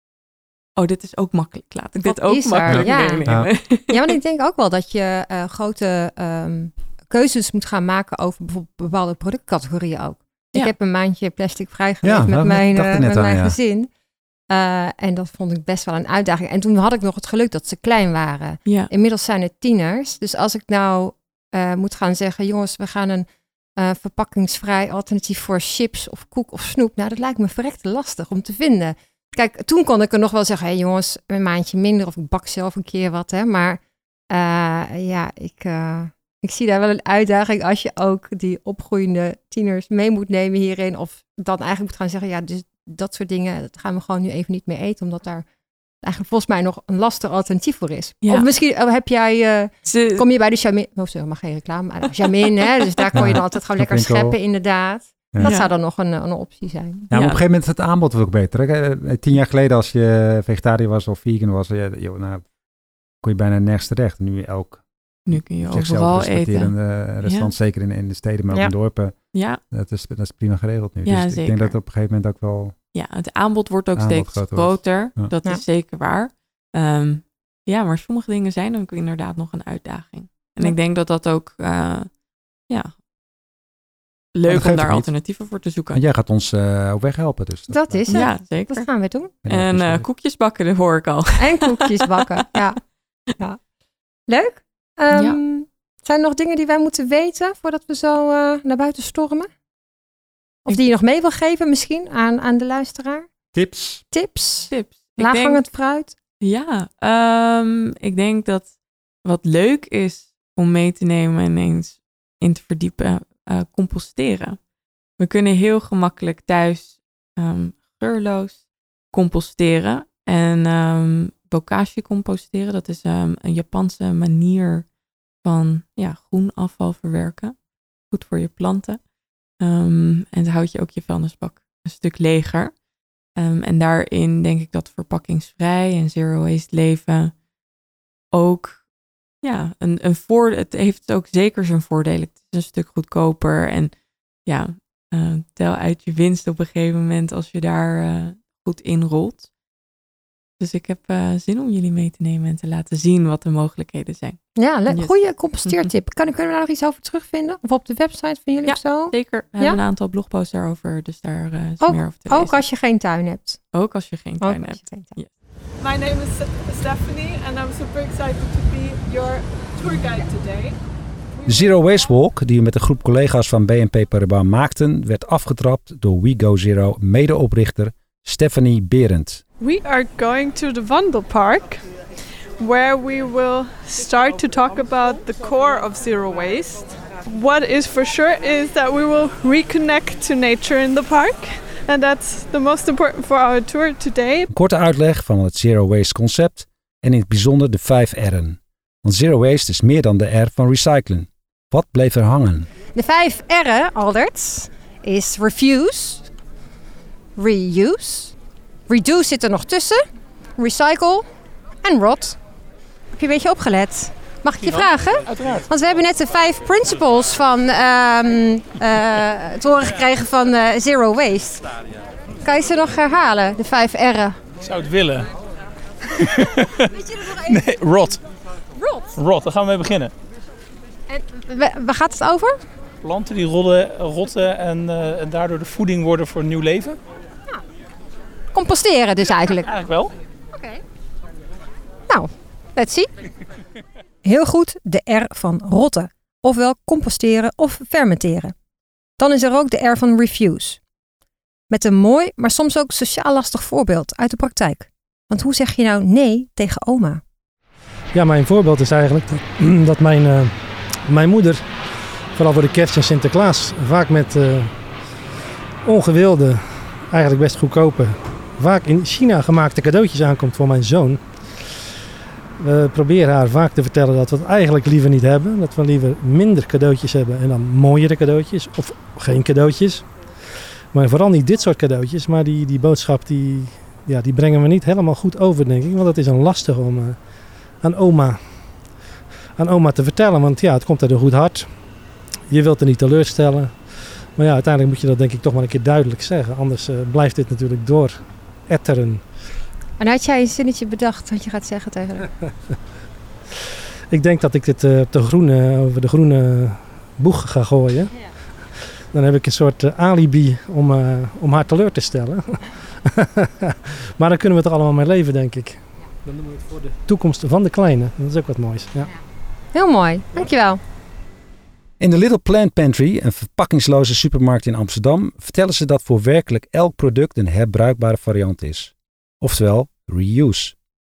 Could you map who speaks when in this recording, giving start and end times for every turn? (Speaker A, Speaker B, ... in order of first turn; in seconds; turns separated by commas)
Speaker A: 0.8-4.2, Speaker B: 2.0-13.9, Speaker C: 2.7-3.5, Speaker C: 12.0-13.6, Speaker B: 14.5-45.5, Speaker A: 18.6-18.9, Speaker B: 46.0-57.1, Speaker A: 49.8-50.2, Speaker C: 53.1-54.4, Speaker A: 55.4-55.7, Speaker C: 57.1-62.5, Speaker A: 57.1-57.4, Speaker C: 63.2-72.8, Speaker A: 65.3-67.5, Speaker A: 69.3-69.6, Speaker A: 71.0-71.8, Speaker A: 72.9-82.1, Speaker C: 74.0-75.3, Speaker A: 82.7-83.0, Speaker A: 84.3-86.0, Speaker C: 84.5-85.1, Speaker C: 85.9-88.3, Speaker B: 87.7-89.3, Speaker A: 88.1-88.9, Speaker C: 89.5-90.1, Speaker A: 89.5-92.4, Speaker B: 91.4-92.8, Speaker B: 93.3-93.6, Speaker B: 94.3-99.5, Speaker A: 95.1-95.4, Speaker B: 100.7-103.3, Speaker C: 103.5-104.0, Speaker B: 104.1-106.1, Speaker A: 104.7-105.6, Speaker A: 106.4-114.6, Speaker A: 115.2-124.9, Speaker A: 125.4-127.6, Speaker A: 128.1-129.0, Speaker A: 129.6-132.8, Speaker A: 133.4-137.4, Speaker A: 138.3-138.9, Speaker A: 139.4-143.9, Speaker A: 144.5-149.5, Speaker A: 150.6-155.1, Speaker B: 154.6-159.8, Speaker A: 158.6-162.6, Speaker B: 161.8-163.7, Speaker A: 163.7-165.3, Speaker B: 164.4-165.1, Speaker D: 165.8-170.8, Speaker D: 171.4-172.1, Speaker C: 171.5-179.4, Speaker D: 179.6-181.9, Speaker D: 182.6-194.5, Speaker C: 194.5-202.7, Speaker B: 202.9-206.3, Speaker B: 207.4-208.3, Speaker B: 208.9-210.0, Speaker B: 210.6-211.3, Speaker B: 211.8-212.4, Speaker B: 213.1-221.7, Speaker E: 214.6-215.7, Speaker B: 222.4-224.4, Speaker E: 224.6-225.3, Speaker E: 226.1-228.2, Speaker B: 227.0-227.6, Speaker B: 228.8-229.1, Speaker E: 229.2-230.1, Speaker B: 231.1-232.6, Speaker E: 233.0-237.0, Speaker B: 238.5-239.7, Speaker E: 239.7-240.1, Speaker B: 240.5-240.8, Speaker B: 242.1-243.1, Speaker B: 244.2-248.6, Speaker B: 249.2-250.8, Speaker B: 251.7-257.2, Speaker F: 258.1-264.8, Speaker F: 265.8-271.8, Speaker F: 272.6-289.0, Speaker F: 289.6-291.9, Speaker F: 292.5-299.4, Speaker B: 300.0-302.4, Speaker F: 304.1-315.9, Speaker F: 316.4-319.1, Speaker B: 319.7-320.8, Speaker C: 322.0-330.8